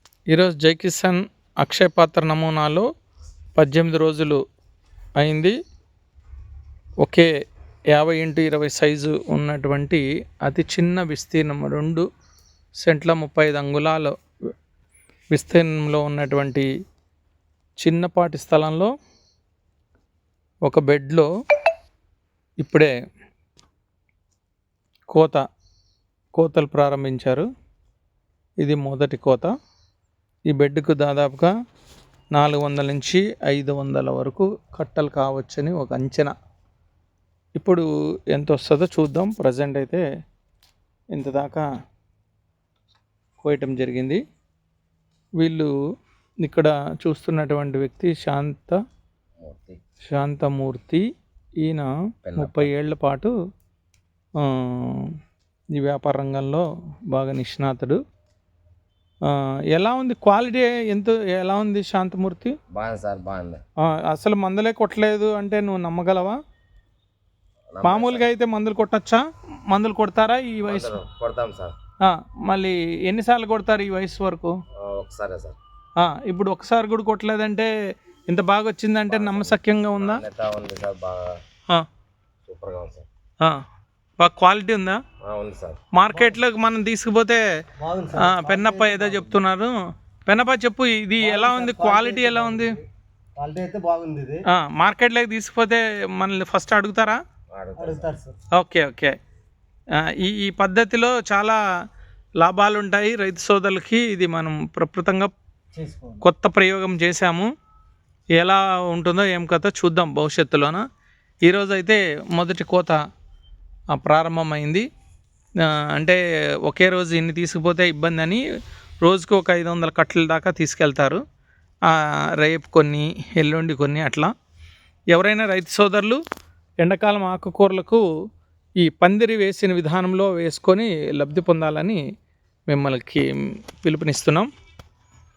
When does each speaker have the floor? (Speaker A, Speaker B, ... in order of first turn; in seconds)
Speaker A: 0.3-2.8, 3.6-4.4, 5.2-5.5, 7.0-7.3, 7.9-12.0, 12.8-14.1, 15.3-16.7, 17.8-18.9, 20.6-21.3, 22.6-22.9, 25.1-25.4, 26.4-27.5, 28.6-29.5, 30.5-31.5, 32.3-36.3, 37.6-40.0, 41.1-41.6, 43.4-44.2, 45.4-45.7, 46.4-48.8, 50.0-51.0, 51.6-53.3, 54.4-55.1, 55.7-58.0, 59.3-62.5, 63.8-66.4, 67.8-71.0, 72.0-74.5, 76.0-77.7, 78.3-80.2, 84.2-85.0, 85.9-87.4, 88.2-89.7, 90.3-92.7, 94.5-97.2, 98.5-99.1, 100.0-101.6, 102.4-105.3, 106.2-107.5, 108.4-110.8, 111.5-113.0, 113.9-114.8, 116.0-118.4, 119.0-121.2, 121.9-124.3, 125.1-126.2, 126.8-128.0, 128.8-132.0, 132.7-133.2, 133.8-134.5
Speaker B: 49.4-49.8, 52.2-52.7, 62.7-63.6, 67.7-68.3, 70.7-71.8, 74.8-75.6, 79.1-81.4, 82.4-83.1, 85.2-85.8, 97.5-98.1
Speaker C: 87.8-89.4, 91.2-92.8, 93.4-94.4, 97.8-98.3, 105.7-106.2